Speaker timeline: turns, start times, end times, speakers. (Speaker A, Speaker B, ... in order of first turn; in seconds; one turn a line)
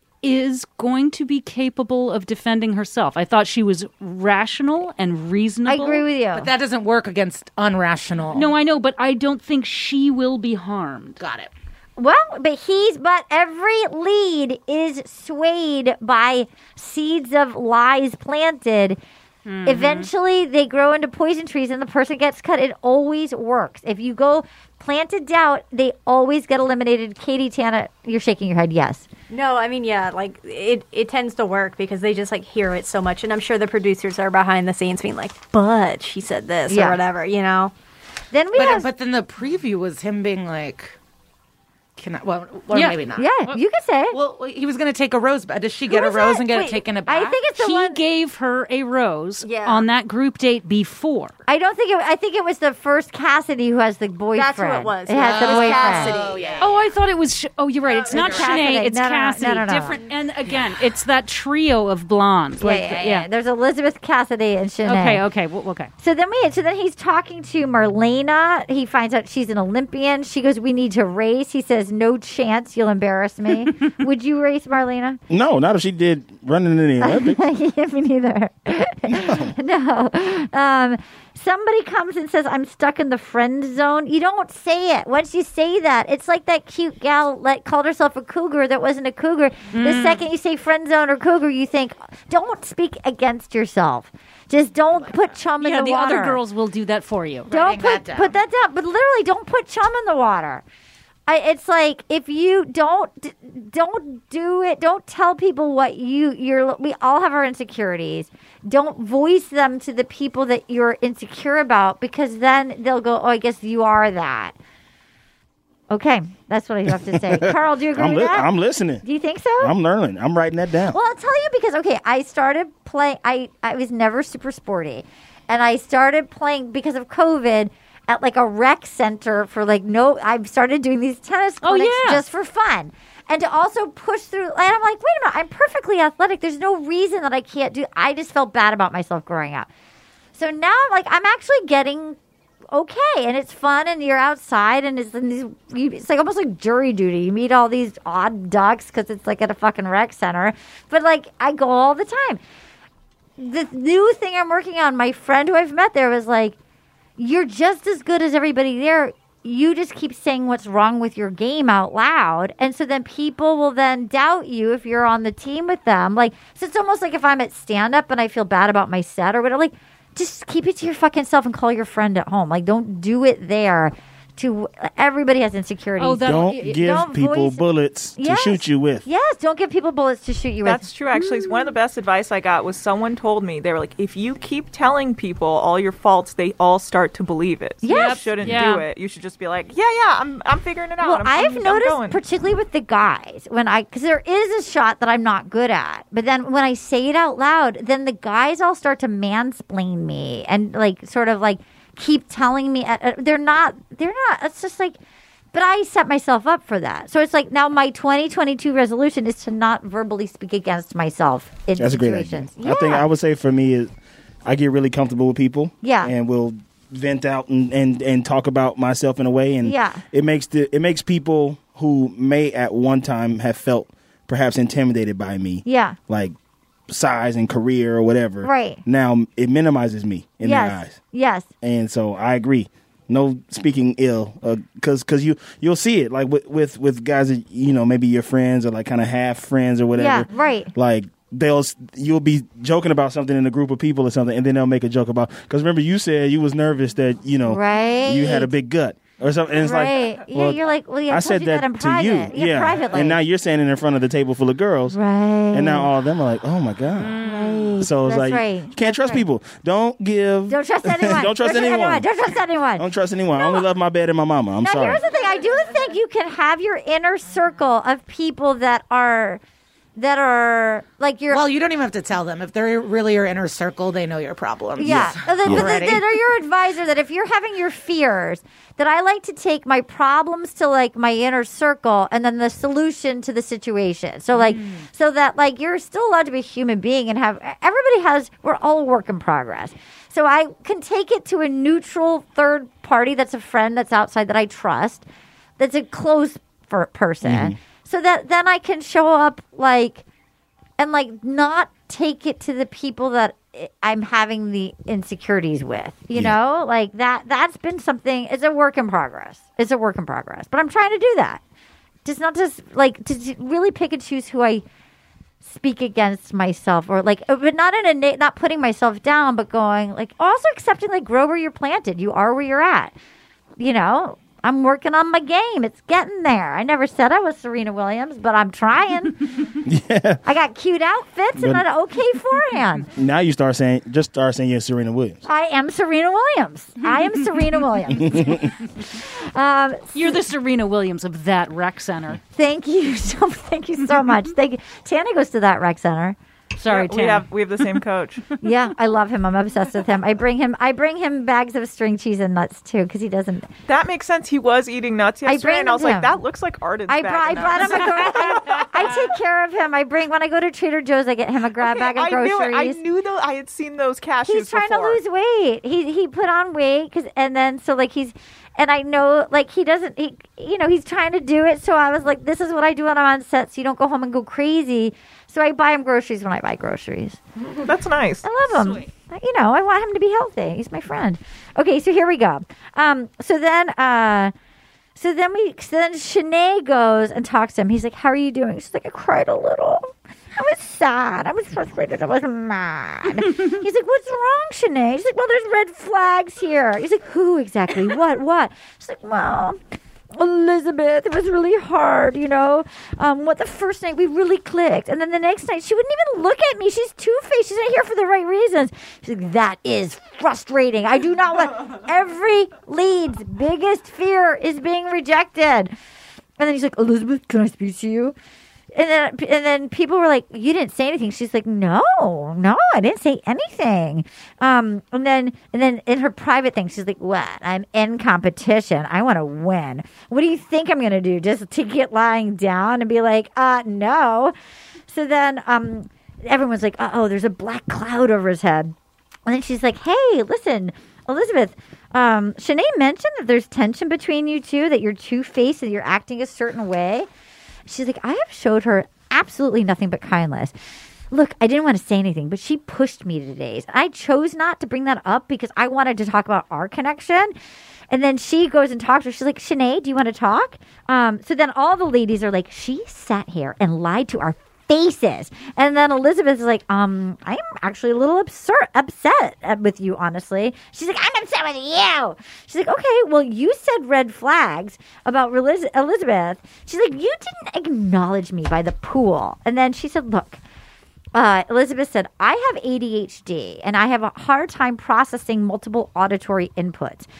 Speaker A: 0.2-6.0
Speaker B: 5.7-6.5
Speaker C: 6.3-8.5
Speaker A: 8.3-11.2
Speaker C: 11.2-11.5
Speaker B: 12.0-19.0
Speaker A: 19.4-20.1
Speaker B: 19.6-29.1
Speaker D: 29.3-37.7
Speaker B: 36.7-37.0
Speaker B: 38.3-38.9
Speaker C: 38.5-41.0
Speaker C: 42.0-43.3
Speaker A: 42.7-43.6
Speaker B: 43.1-44.1
Speaker C: 44.1-47.4
Speaker B: 45.9-48.0
Speaker A: 47.6-51.3
Speaker D: 49.4-49.9
Speaker B: 51.5-56.2
Speaker D: 54.3-56.6
Speaker C: 55.2-56.8
Speaker A: 56.6-63.3
Speaker C: 57.9-58.9
Speaker B: 58.1-60.0
Speaker D: 59.9-60.2
Speaker B: 62.6-65.2
Speaker A: 64.8-65.9
Speaker B: 66.0-75.2
Speaker E: 75.3-77.5
Speaker B: 77.0-96.4
Speaker E: 79.1-79.5
Speaker A: 89.7-90.2
Speaker A: 95.6-97.5
Speaker C: 97.5-98.4
Speaker B: 97.5-100.6
Speaker B: 101.3-114.5
Speaker B: 115.9-118.5
Speaker E: 116.9-119.0
Speaker B: 119.0-119.7
Speaker E: 119.6-121.0
Speaker B: 120.9-139.7
Speaker A: 131.6-132.2
Speaker B: 140.3-142.2
Speaker B: 142.7-152.4
Speaker B: 153.4-156.6
Speaker B: 157.2-181.7
Speaker A: 176.0-177.0
Speaker E: 176.2-179.1
Speaker F: 180.6-192.2
Speaker B: 187.8-188.6
Speaker A: 187.9-188.8
Speaker B: 191.0-205.0
Speaker B: 205.5-213.1
Speaker E: 211.8-213.9
Speaker E: 214.4-226.3
Speaker B: 215.8-216.1
Speaker B: 219.6-220.0
Speaker B: 225.6-225.9
Speaker E: 226.9-231.0
Speaker B: 228.4-228.8
Speaker B: 230.4-231.5
Speaker E: 231.6-255.0
Speaker B: 239.9-240.7
Speaker B: 247.5-248.5
Speaker B: 249.6-253.2
Speaker B: 254.9-255.9
Speaker E: 255.5-257.2
Speaker B: 257.1-259.2
Speaker E: 257.8-262.1
Speaker B: 260.5-263.6
Speaker E: 262.8-265.0
Speaker B: 264.6-269.4
Speaker B: 269.9-271.4
Speaker C: 271.3-276.1
Speaker B: 274.8-295.0
Speaker E: 274.8-275.7
Speaker C: 284.3-284.9
Speaker B: 295.6-300.0
Speaker E: 297.2-297.6
Speaker B: 300.8-311.4
Speaker B: 312.0-314.6
Speaker B: 315.4-322.9
Speaker B: 323.6-329.3
Speaker E: 329.6-330.2
Speaker B: 330.2-332.9
Speaker E: 331.4-331.6
Speaker E: 332.9-335.2
Speaker B: 335.2-340.1
Speaker A: 339.9-342.2
Speaker B: 342.3-346.1
Speaker A: 346.6-347.7
Speaker F: 346.6-348.3
Speaker B: 348.4-353.5
Speaker F: 353.7-358.6
Speaker B: 355.2-356.2
Speaker B: 356.9-362.8
Speaker F: 361.6-365.0
Speaker B: 364.2-377.2
Speaker F: 377.5-378.2
Speaker B: 378.2-384.3
Speaker A: 378.5-378.9
Speaker B: 384.9-399.6
Speaker B: 400.1-415.7
Speaker B: 416.4-418.1
Speaker B: 418.7-434.3
Speaker B: 434.9-438.7
Speaker B: 439.2-447.1
Speaker B: 447.7-450.5
Speaker B: 451.1-457.3
Speaker B: 457.9-480.4
Speaker B: 481.1-487.1